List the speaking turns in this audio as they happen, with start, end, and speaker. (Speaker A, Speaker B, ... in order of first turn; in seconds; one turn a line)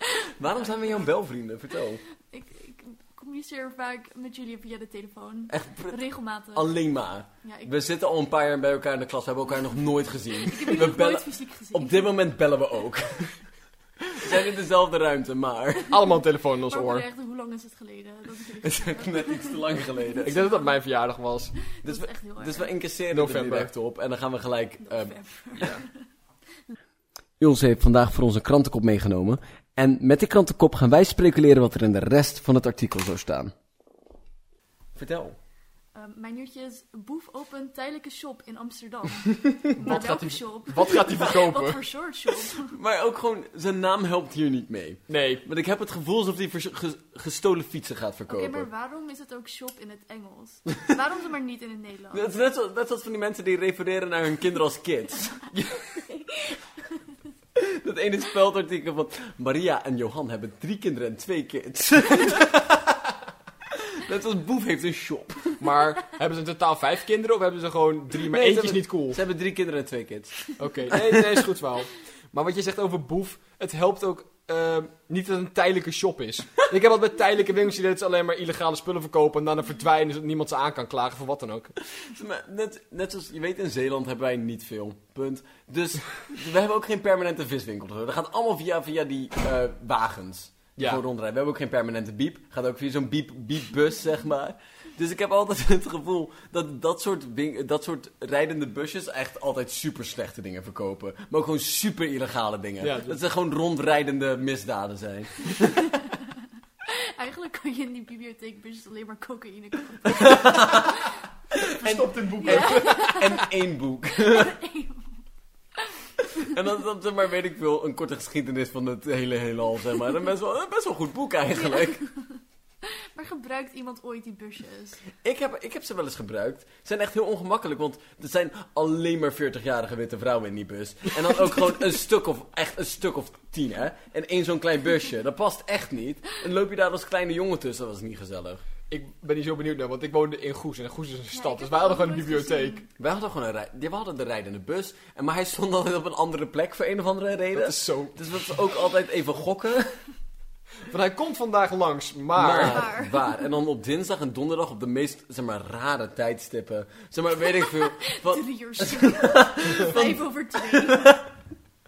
Speaker A: 0.4-2.0
Speaker B: 2.3-6.8
Speaker A: 5.5-6.0
Speaker A: 6.5-13.4
Speaker B: 7.4-7.7
Speaker B: 10.4-12.2
Speaker A: 14.0-15.9
Speaker C: 15.9-17.1
Speaker B: 16.7-20.8
Speaker A: 18.6-20.4
Speaker C: 20.2-21.6
Speaker B: 21.6-22.8
Speaker A: 21.8-25.2
Speaker C: 23.1-23.7
Speaker B: 24.8-26.0
Speaker C: 25.6-25.8
Speaker A: 27.4-33.5
Speaker A: 35.0-35.4
Speaker B: 36.0-42.8
Speaker C: 39.8-41.8
Speaker A: 42.5-48.7
Speaker C: 45.1-45.5
Speaker B: 48.3-52.3
Speaker A: 52.1-55.4
Speaker C: 55.5-55.8
Speaker B: 55.7-57.0
Speaker A: 57.6-62.6
Speaker A: 63.7-65.6
Speaker C: 65.6-69.2
Speaker A: 68.2-71.2
Speaker C: 70.6-81.7
Speaker A: 82.0-105.9
Speaker C: 90.8-91.0
Speaker C: 102.8-103.2
Speaker B: 105.7-106.3
Speaker B: 106.9-111.1
Speaker A: 110.0-114.5
Speaker C: 111.6-113.2
Speaker B: 112.4-113.5
Speaker B: 114.3-115.2
Speaker A: 116.2-122.0
Speaker B: 121.5-125.0
Speaker A: 125.2-138.6
Speaker C: 138.9-142.8
Speaker B: 141.3-142.9
Speaker A: 143.0-149.9
Speaker C: 147.5-148.2
Speaker C: 150.9-152.9
Speaker A: 152.3-161.3
Speaker B: 152.6-153.4
Speaker B: 157.9-161.2